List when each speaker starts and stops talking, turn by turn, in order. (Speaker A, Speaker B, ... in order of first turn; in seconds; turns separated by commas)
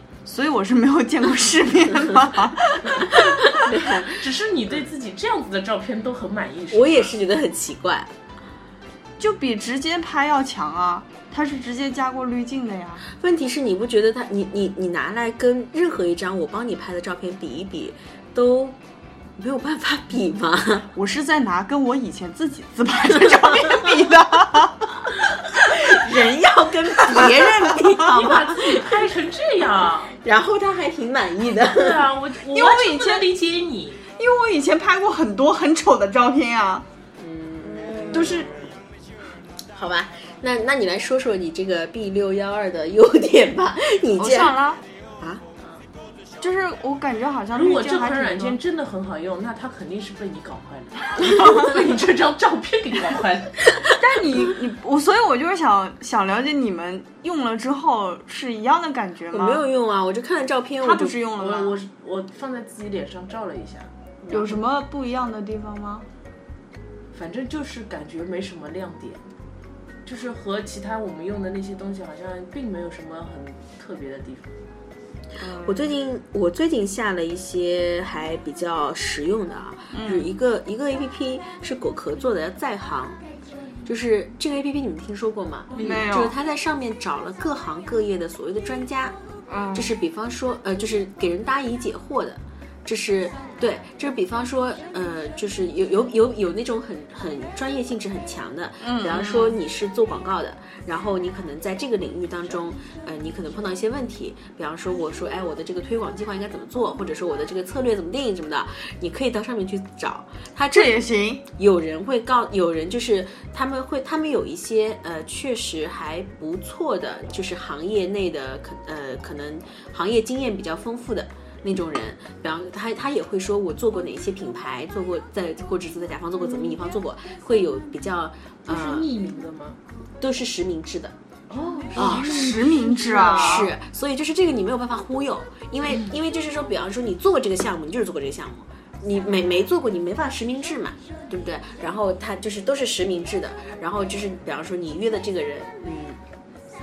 Speaker A: 0.2-3.6, Speaker B: 3.4-4.2, Speaker C: 4.1-7.1, Speaker B: 6.7-8.1, Speaker A: 9.2-13.0, Speaker B: 13.1-18.8, Speaker B: 19.4-20.9, Speaker A: 20.9-25.0, Speaker B: 25.7-29.0, Speaker A: 25.9-26.1, Speaker A: 27.0-28.0, Speaker C: 27.9-30.1, Speaker B: 30.2-32.1, Speaker C: 31.6-34.0, Speaker A: 32.5-33.3, Speaker A: 34.1-36.8, Speaker B: 37.2-38.7, Speaker A: 38.1-38.5, Speaker B: 39.7-44.6, Speaker A: 44.1-44.8, Speaker B: 45.2-45.4, Speaker A: 46.4-48.6, Speaker C: 47.5-53.6, Speaker A: 51.2-51.7, Speaker A: 54.0-59.6, Speaker B: 59.3-61.2, Speaker A: 60.8-61.8, Speaker C: 61.4-63.9, Speaker A: 64.3-66.1, Speaker C: 67.1-69.2, Speaker C: 70.0-74.5, Speaker A: 75.4-75.9, Speaker B: 75.5-83.2, Speaker A: 79.9-80.3, Speaker B: 83.8-89.1, Speaker C: 85.7-86.1, Speaker A: 85.8-86.3, Speaker A: 89.5-89.9, Speaker B: 89.7-111.0, Speaker A: 98.8-99.5, Speaker A: 110.7-111.4, Speaker B: 111.5-129.1, Speaker C: 126.4-126.7, Speaker C: 128.7-129.8, Speaker B: 130.2-131.1, Speaker C: 131.5-133.7, Speaker A: 131.9-133.7, Speaker B: 131.9-132.3, Speaker B: 133.3-146.2